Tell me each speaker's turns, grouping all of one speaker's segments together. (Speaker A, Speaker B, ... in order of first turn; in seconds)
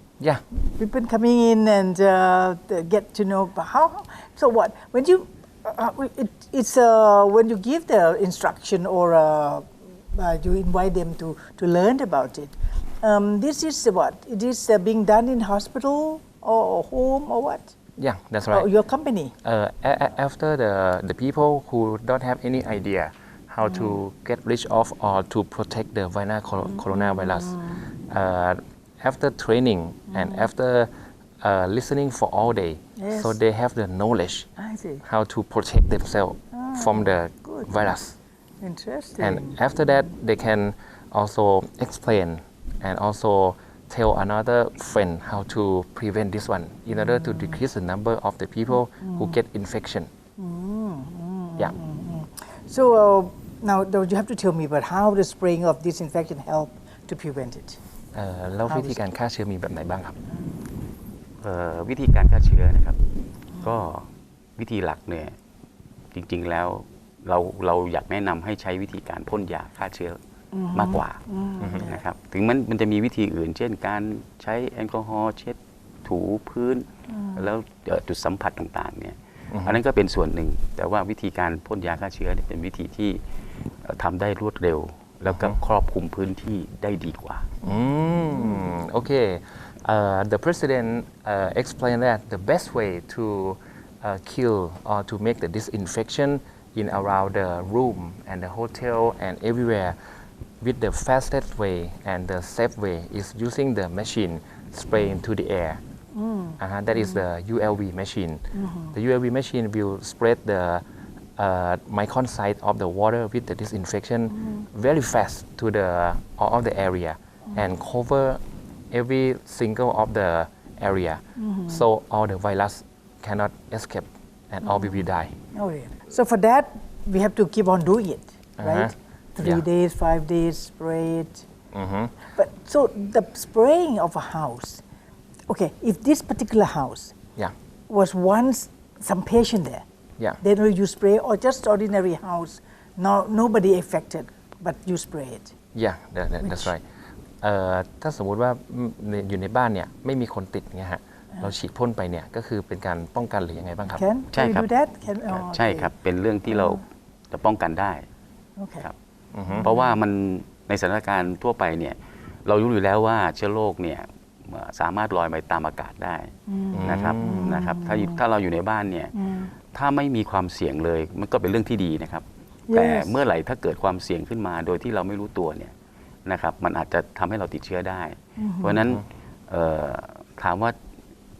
Speaker A: 0.7-17.7, 18.5-19.3, 23.7-24.0, 26.7-27.8, 30.1-30.5, 33.0-33.4, 34.6-35.0, 36.5-37.7, 38.6-39.6, 47.0-47.6, 49.0-49.4, 50.4-57.8, 58.7-59.0, 60.3-60.6, 70.5-72.0, 77.1-77.5, 106.1-107.2, 108.5-109.0, 114.3-114.7, 121.4-121.8, 124.6-131.5, 132.3-134.8, 135.5-137.2, 137.9-139.8, 140.4-145.5, 146.4-146.7, 153.9-155.9, 156.5-156.8, 158.6-158.9, 159.5-159.9, 166.5-168.2, 169.1-169.5, 172.7-173.1, 178.4-178.8
Speaker B: 18.0-18.7, 19.4-34.5, 35.0-38.2, 39.2-50.1, 58.1-60.2, 79.5-79.8, 85.3-85.6, 87.6-100.0, 100.6-105.8, 106.6-110.8, 111.4-125.3, 128.6-129.7, 131.7-132.1, 145.7-146.8, 147.4-154.0, 159.3-159.7, 166.7-167.5
Speaker C: 61.4-63.0, 63.6-65.4, 66.1-70.2, 70.7-71.2, 71.7-83.2, 83.8-87.5, 154.3-154.7, 155.3-158.1, 159.6-166.3, 166.9-169.1, 169.7-175.7, 176.3-180.8